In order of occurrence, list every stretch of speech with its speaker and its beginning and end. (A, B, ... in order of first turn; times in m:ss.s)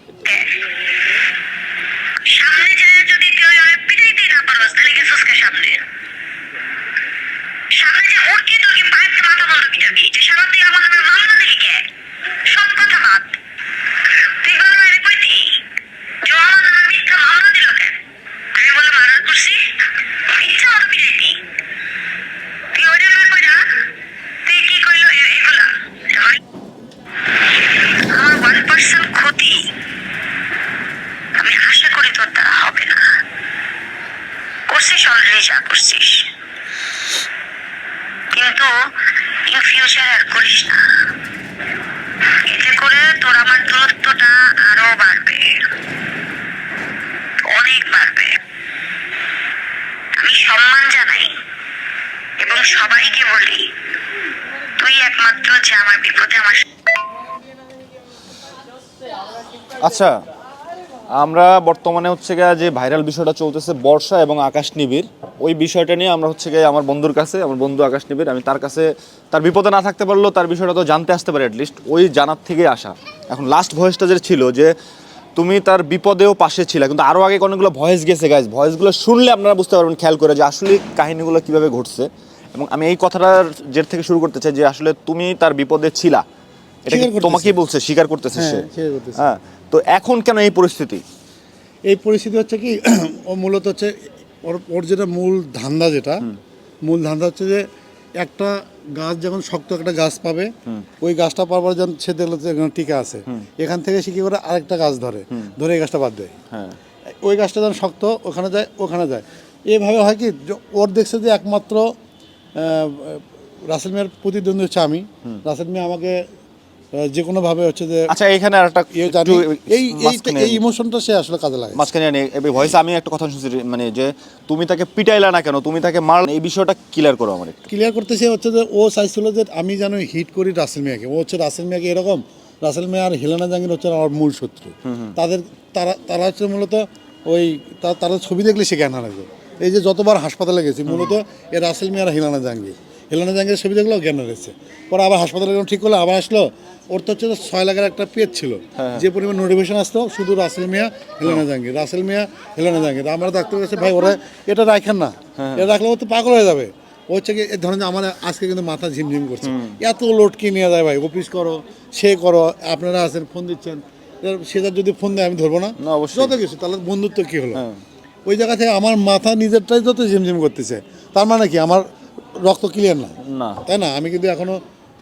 0:00.2-0:00.6 A
0:02.2-0:05.8 A
0:07.7-0:11.9 A
0:12.4-0:13.4 A
0:14.1-0:15.6 A
0:16.2-0:18.0 A
0:18.5-0:21.4 A
0:22.7-0:23.8 A
0:24.4-0:26.4 A
0:27.8-0:29.7 A
0:31.3-0:33.1 A
0:34.7-0:36.3 A
0:38.3-0:38.7 A
0:39.4-0:40.8 A
0:42.4-0:45.7 A
0:47.5-0:48.4 A
0:50.2-0:51.4 A
0:52.4-0:53.7 A
0:54.8-0:56.6 A
0:59.8-1:00.1 B
1:01.1-1:14.7 B
1:15.4-1:26.2 B
1:26.8-1:31.0 B
1:26.9-1:27.6 C
1:28.3-1:29.2 C
1:31.9-1:36.2 C
1:36.8-1:37.6 C
1:38.2-1:46.3 C
1:46.5-1:46.8 B
1:47.2-1:51.8 C
1:52.6-1:56.2 C
1:56.9-1:58.1 C
1:58.1-2:00.6 B
1:58.9-2:01.8 C
2:01.7-2:07.7 B
2:07.7-2:47.6 C
2:14.8-2:15.1 B
2:20.9-2:21.1 B
2:28.8-2:29.0 B
2:35.4-2:35.6 B
2:39.4-2:39.8 B
2:45.8-2:46.3 B
2:48.3-2:51.8 C
2:52.4-2:54.6 C
2:53.2-2:53.6 B